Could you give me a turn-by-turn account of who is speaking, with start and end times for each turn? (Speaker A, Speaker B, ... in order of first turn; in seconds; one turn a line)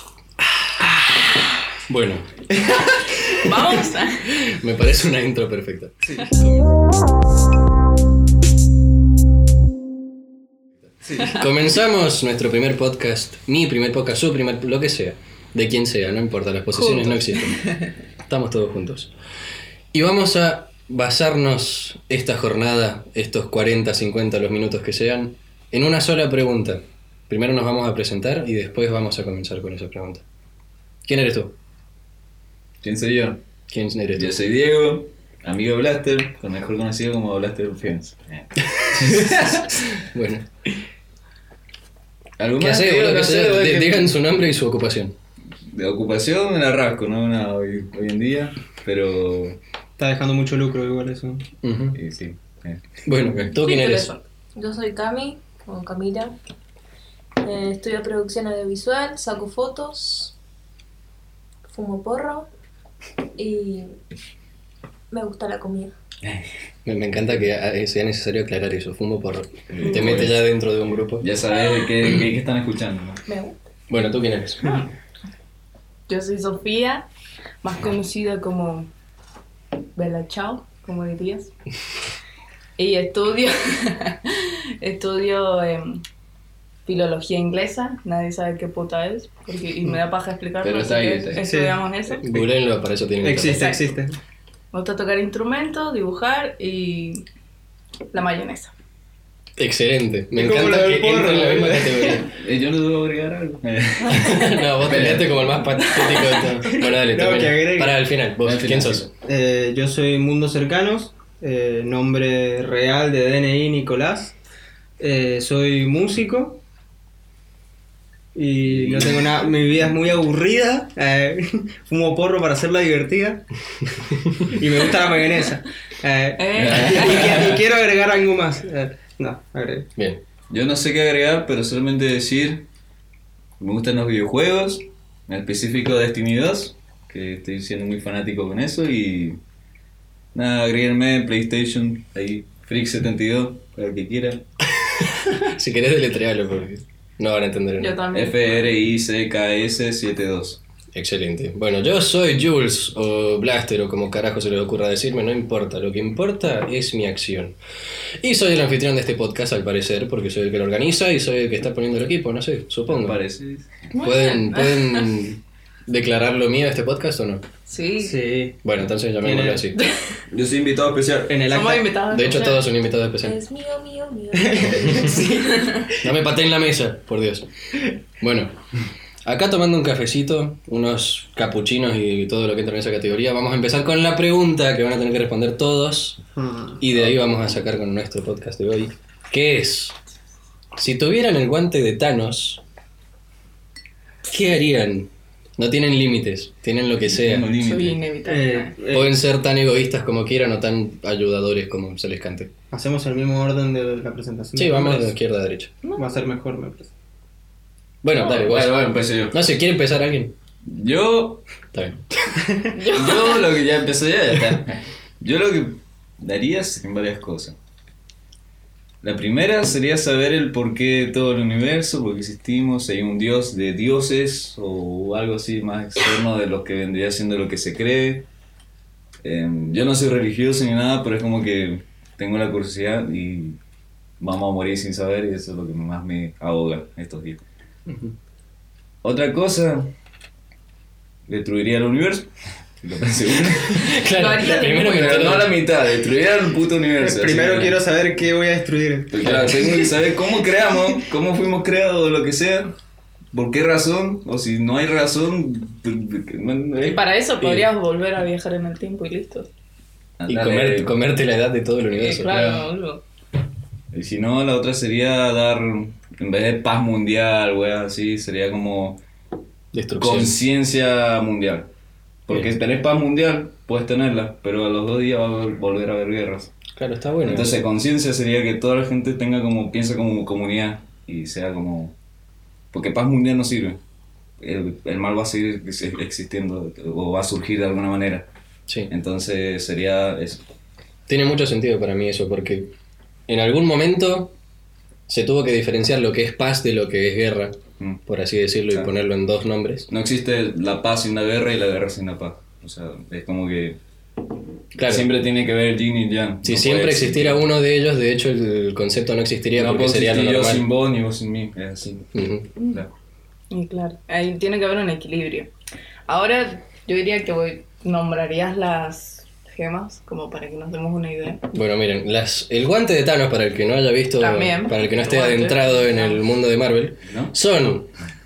Speaker A: 1.9-2.4
Speaker A: 3.1-6.0
Speaker B: 3.3-4.3
Speaker C: 6.0-6.7
Speaker C: 11.0-11.4
Speaker A: 11.3-17.6
Speaker B: 16.7-17.8
Speaker A: 18.2-19.1
Speaker A: 19.9-30.2
Speaker A: 31.1-31.6
Speaker D: 32.8-33.4
Speaker A: 33.7-34.3
Speaker D: 34.2-39.9
Speaker A: 38.8-40.5
Speaker D: 42.4-44.1
Speaker A: 42.6-45.1
Speaker D: 45.7-49.6
Speaker C: 50.0-51.5
Speaker A: 51.6-52.0
Speaker D: 52.0-52.8
Speaker A: 53.0-54.1
Speaker B: 53.5-54.2
Speaker E: 54.5-56.3
Speaker E: 57.4-60.3
Speaker E: 61.7-62.5
Speaker E: 63.4-64.0
Speaker E: 65.1-65.9
Speaker D: 66.2-66.5
Speaker A: 66.8-71.3
Speaker D: 69.7-70.4
Speaker D: 71.2-73.2
Speaker E: 73.2-73.6
Speaker A: 73.9-74.7
Speaker B: 74.6-74.9
Speaker B: 76.1-77.1
Speaker B: 77.6-78.9
Speaker B: 80.0-81.5
Speaker B: 82.8-86.0
Speaker B: 86.9-92.4
Speaker D: 90.6-91.5
Speaker C: 91.4-91.8
Speaker A: 92.2-93.7
Speaker C: 93.2-94.1
Speaker B: 94.7-97.2
Speaker B: 98.1-98.7
Speaker A: 99.6-102.3
Speaker C: 100.3-102.2
Speaker D: 102.3-105.5
Speaker A: 104.1-109.1
Speaker B: 105.9-106.5
Speaker C: 106.8-108.0
Speaker D: 108.4-109.1
Speaker C: 109.2-114.4
Speaker C: 115.0-116.6
Speaker C: 118.3-123.5
Speaker D: 118.6-119.3
Speaker C: 124.5-129.9
Speaker B: 126.4-127.5
Speaker D: 126.5-127.6
Speaker A: 130.0-130.2
Speaker D: 130.5-132.7
Speaker D: 133.6-139.4
Speaker D: 140.3-144.4
Speaker A: 144.8-148.0
Speaker B: 147.8-148.7
Speaker D: 148.1-150.6
Speaker A: 150.9-157.6
Speaker A: 158.2-163.2
Speaker D: 162.9-163.9
Speaker B: 163.9-165.2
Speaker A: 163.9-167.4
Speaker B: 167.7-168.2
Speaker C: 168.0-168.6
Speaker A: 168.6-169.8
Speaker C: 169.2-169.7
Speaker B: 169.7-170.2
Speaker D: 170.3-171.4
Speaker C: 171.3-171.9
Speaker B: 171.5-172.7
Speaker A: 172.1-173.4
Speaker E: 173.2-175.3
Speaker C: 174.4-176.0
Speaker A: 174.8-175.1
Speaker B: 175.2-175.9
Speaker A: 176.0-177.5
Speaker A: 178.2-178.6
Speaker A: 179.2-186.2
Speaker C: 186.4-186.8
Speaker A: 186.8-190.0
Speaker A: 190.7-192.6
Speaker A: 194.2-197.5
Speaker D: 197.1-198.0
Speaker B: 197.6-198.8
Speaker C: 198.2-199.2
Speaker A: 198.9-202.5
Speaker C: 202.7-205.1
Speaker A: 204.6-205.7
Speaker C: 206.0-206.9
Speaker A: 208.0-210.3
Speaker D: 208.2-209.4
Speaker D: 210.6-211.4
Speaker A: 211.7-212.0
Speaker B: 212.7-213.4
Speaker D: 212.9-217.6
Speaker D: 219.0-228.2
Speaker D: 229.2-233.6
Speaker D: 234.2-237.4
Speaker A: 237.9-238.1
Speaker D: 239.0-239.9
Speaker D: 241.3-243.9
Speaker A: 243.7-245.6
Speaker B: 243.8-245.4
Speaker D: 244.8-247.8
Speaker C: 247.0-249.3
Speaker D: 249.1-252.7
Speaker A: 249.2-249.7
Speaker D: 253.3-257.0
Speaker B: 256.8-259.5
Speaker A: 257.4-257.7
Speaker D: 260.2-260.9
Speaker A: 260.3-262.6
Speaker B: 262.0-263.0
Speaker D: 262.2-262.6
Speaker D: 263.9-269.0
Speaker A: 269.7-270.3
Speaker D: 270.0-271.7
Speaker D: 272.2-276.5
Speaker A: 276.8-277.6
Speaker D: 277.2-281.9
Speaker D: 282.7-283.8
Speaker D: 284.4-288.3
Speaker D: 288.9-290.4
Speaker A: 291.1-292.7
Speaker A: 293.3-294.3
Speaker A: 295.1-299.9
Speaker D: 299.9-303.8
Speaker A: 304.8-305.1
Speaker D: 304.8-307.4
Speaker A: 306.4-310.6
Speaker D: 309.6-312.1
Speaker A: 312.1-312.5
Speaker B: 313.5-315.5
Speaker B: 316.1-321.4
Speaker A: 321.5-327.9
Speaker B: 324.2-326.2
Speaker D: 327.1-327.3